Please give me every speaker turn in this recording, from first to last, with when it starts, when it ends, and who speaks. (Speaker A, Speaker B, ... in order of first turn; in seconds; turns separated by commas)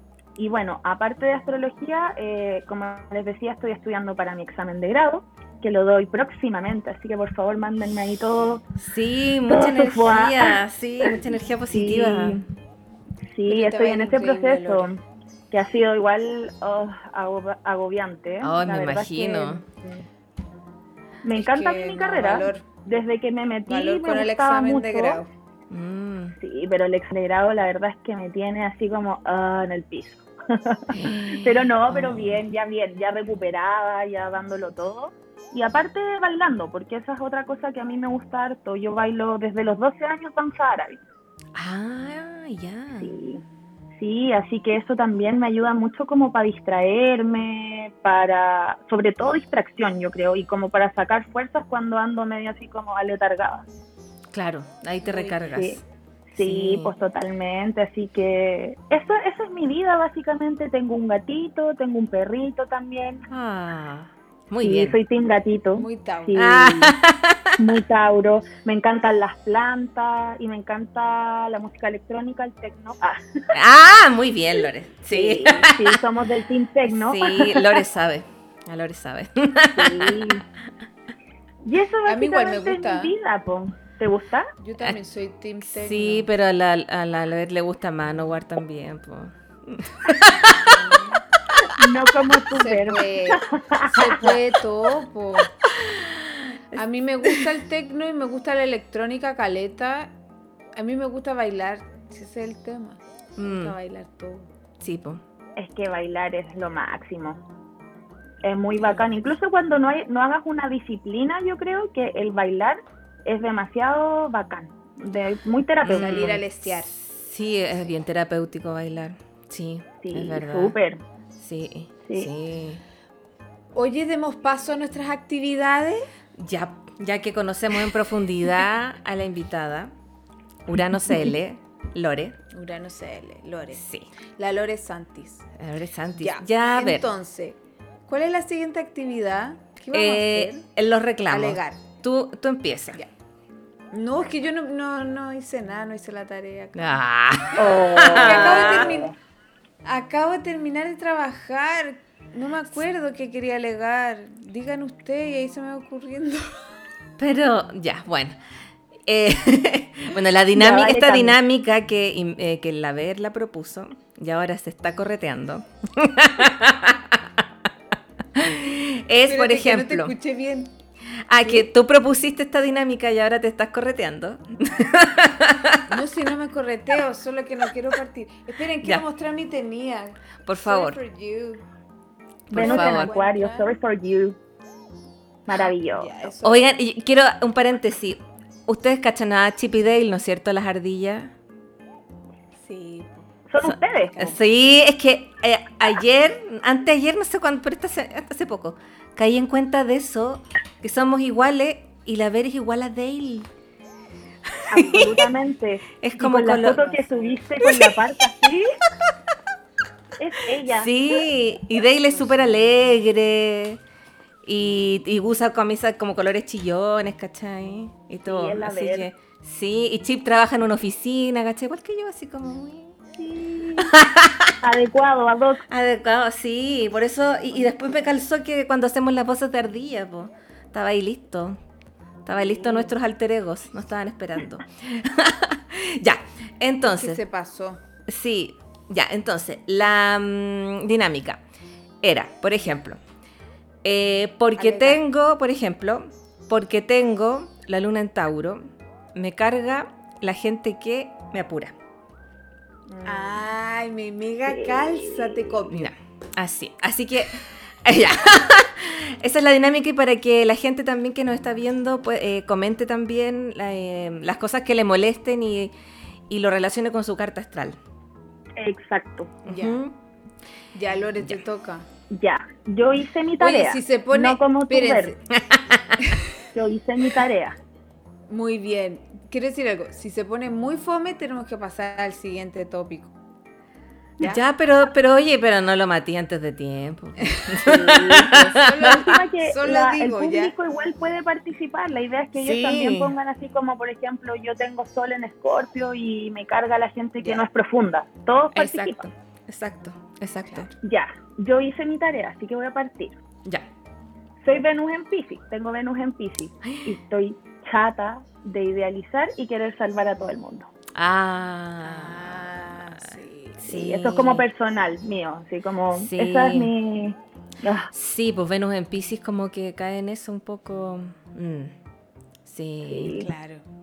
Speaker A: 0.4-8.6, Speaker B: 8.8-12.4, Speaker A: 9.5-11.2, Speaker A: 11.7-12.4, Speaker A: 13.3-15.0, Speaker C: 13.5-15.0, Speaker A: 15.5-20.0, Speaker B: 18.4-19.6, Speaker A: 21.2-25.2, Speaker C: 21.4-22.7, Speaker C: 23.7-25.3, Speaker B: 25.7-26.4, Speaker A: 26.4-41.0, Speaker B: 30.9-32.4, Speaker B: 41.5-43.1, Speaker A: 43.0-43.4, Speaker A: 44.0-53.7, Speaker B: 54.3-55.8, Speaker C: 55.0-55.4, Speaker A: 55.5-55.8, Speaker A: 56.3-63.2, Speaker B: 56.4-56.9, Speaker B: 63.3-65.0, Speaker A: 64.6-67.0, Speaker C: 65.8-66.5, Speaker B: 66.4-67.6, Speaker A: 67.6-73.5, Speaker B: 73.5-76.0, Speaker A: 75.1-77.8, Speaker B: 76.8-80.4, Speaker A: 79.8-80.4, Speaker A: 81.6-84.5, Speaker C: 82.1-83.1, Speaker C: 84.6-86.3, Speaker B: 85.6-90.8, Speaker C: 90.3-91.2, Speaker A: 91.8-94.4, Speaker C: 92.5-95.5, Speaker B: 95.7-97.4, Speaker C: 96.7-100.1, Speaker C: 100.8-104.5, Speaker B: 103.4-103.8, Speaker B: 104.8-105.2, Speaker A: 105.6-107.4, Speaker A: 108.4-116.4, Speaker C: 108.8-109.0, Speaker B: 115.8-120.8, Speaker C: 115.9-116.9, Speaker A: 120.0-121.0, Speaker B: 121.4-122.8, Speaker A: 122.1-122.3, Speaker C: 123.8-126.1, Speaker B: 126.3-129.9, Speaker B: 130.7-132.4, Speaker C: 132.5-133.8, Speaker B: 133.8-134.1, Speaker C: 134.4-135.5, Speaker B: 135.6-137.1, Speaker C: 136.2-140.7, Speaker B: 139.9-143.0, Speaker C: 141.3-141.8, Speaker C: 143.9-147.0, Speaker B: 146.8-149.0, Speaker C: 147.6-149.1, Speaker A: 147.6-149.1, Speaker C: 149.8-156.6, Speaker B: 157.2-158.4, Speaker B: 159.1-167.4, Speaker A: 160.5-161.4, Speaker B: 168.3-170.2, Speaker C: 169.3-170.8, Speaker B: 171.2-175.9, Speaker C: 171.4-171.7, Speaker C: 175.9-181.7, Speaker B: 180.4-181.0, Speaker B: 182.5-183.1, Speaker C: 182.5-183.7, Speaker A: 182.5-184.4, Speaker A: 185.5-186.2, Speaker C: 185.6-186.8, Speaker B: 186.4-191.3, Speaker C: 192.6-193.3, Speaker A: 193.5-194.4, Speaker B: 193.6-203.5, Speaker B: 204.5-205.3, Speaker A: 204.7-208.7, Speaker B: 206.0-206.8, Speaker C: 206.7-207.4, Speaker B: 207.6-208.0, Speaker A: 210.2-210.9, Speaker B: 210.7-213.8, Speaker C: 212.1-212.6, Speaker B: 214.4-223.0, Speaker A: 218.2-219.1, Speaker A: 223.2-224.0, Speaker B: 223.8-224.6, Speaker A: 224.6-225.6, Speaker B: 225.7-231.6, Speaker B: 232.2-237.2, Speaker C: 236.8-237.8, Speaker B: 238.1-241.4, Speaker B: 242.0-243.0, Speaker B: 243.8-251.7, Speaker C: 244.6-245.0, Speaker A: 252.9-253.4, Speaker C: 253.0-255.9, Speaker A: 254.5-255.5, Speaker B: 255.7-265.7, Speaker B: 266.3-267.8, Speaker A: 268.6-269.4, Speaker C: 269.4-269.8, Speaker B: 269.5-270.0, Speaker C: 270.7-271.9, Speaker A: 272.1-275.2, Speaker C: 273.4-275.2, Speaker B: 275.3-276.0, Speaker A: 276.5-277.6, Speaker C: 278.3-283.1, Speaker B: 284.2-288.9, Speaker C: 287.2-287.6, Speaker A: 287.7-299.0, Speaker C: 288.1-290.5, Speaker B: 292.4-293.1, Speaker C: 297.2-297.4, Speaker B: 298.5-300.7, Speaker A: 300.8-303.2, Speaker A: 304.4-310.7, Speaker B: 310.9-312.9, Speaker C: 311.8-313.6, Speaker B: 313.6-314.5, Speaker A: 313.6-317.9, Speaker B: 315.9-316.7, Speaker B: 317.9-321.8, Speaker B: 322.4-323.2, Speaker A: 322.9-323.3, Speaker C: 323.2-323.6